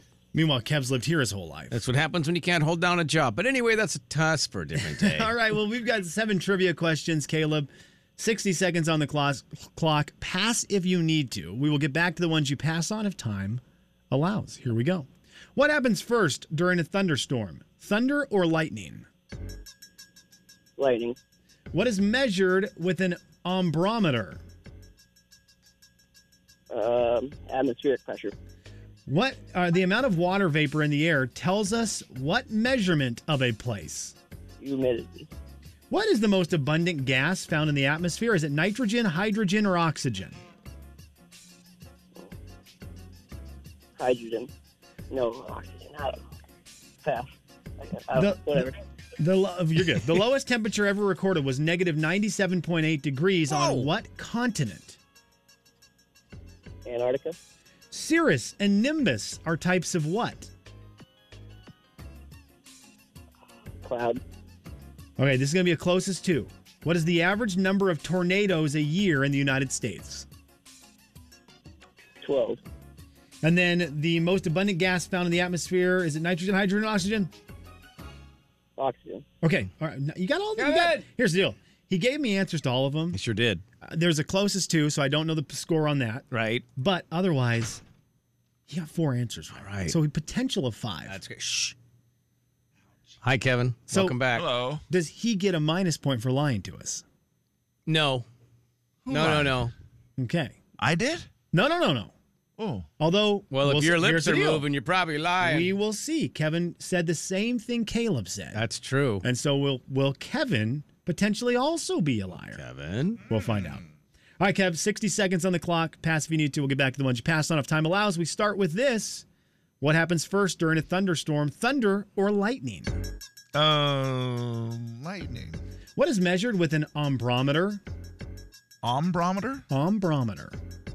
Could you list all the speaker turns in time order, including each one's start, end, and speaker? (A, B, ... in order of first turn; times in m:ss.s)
0:00.3-0:01.8 A
0:01.7-0:05.3 B
0:04.8-0:19.1 A
0:20.8-0:21.2 C
0:21.7-0:24.4 A
0:26.7-0:28.3 C
0:29.1-0:34.1 A
0:34.6-0:35.3 C
0:35.9-0:40.4 A
0:44.0-0:44.5 C
0:45.1-0:46.2 C
0:47.0-0:47.3 C
0:47.8-0:48.8 C
0:48.2-0:48.7 A
0:49.2-0:55.0 A
0:53.5-0:53.9 B
0:56.8-0:57.4 C
0:57.9-1:00.5 A
1:03.8-1:04.2 C
1:05.2-1:10.2 A
1:12.2-1:12.6 C
1:13.4-1:17.3 A
1:18.8-1:19.2 C
1:19.4-1:23.2 A
1:20.6-1:21.0 B
1:23.1-1:23.6 B
1:23.8-1:27.8 A
1:26.3-1:26.6 B
1:28.7-1:31.2 A
1:29.5-1:30.0 B
1:31.1-1:31.7 B
1:33.2-1:34.4 B
1:33.9-1:34.2 A
1:34.3-1:34.8 D
1:34.9-1:37.0 A
1:37.9-1:38.2 B
1:39.0-1:39.7 D
1:39.1-1:39.7 B
1:40.2-1:40.6 A
1:40.8-1:41.3 D
1:41.5-1:42.1 A
1:42.6-1:42.9 D
1:43.0-1:44.6 A
1:43.5-1:45.7 B
1:45.4-1:48.6 A
1:48.5-1:49.2 B
1:49.2-1:52.6 A
1:52.5-1:53.2 B
1:53.3-1:53.8 A
1:53.3-1:53.8 D
1:54.4-1:59.2 A
1:59.8-2:03.0 A
2:03.5-2:05.6 D
2:06.0-2:07.8 A
2:08.8-2:09.6 D
2:09.7-2:10.6 A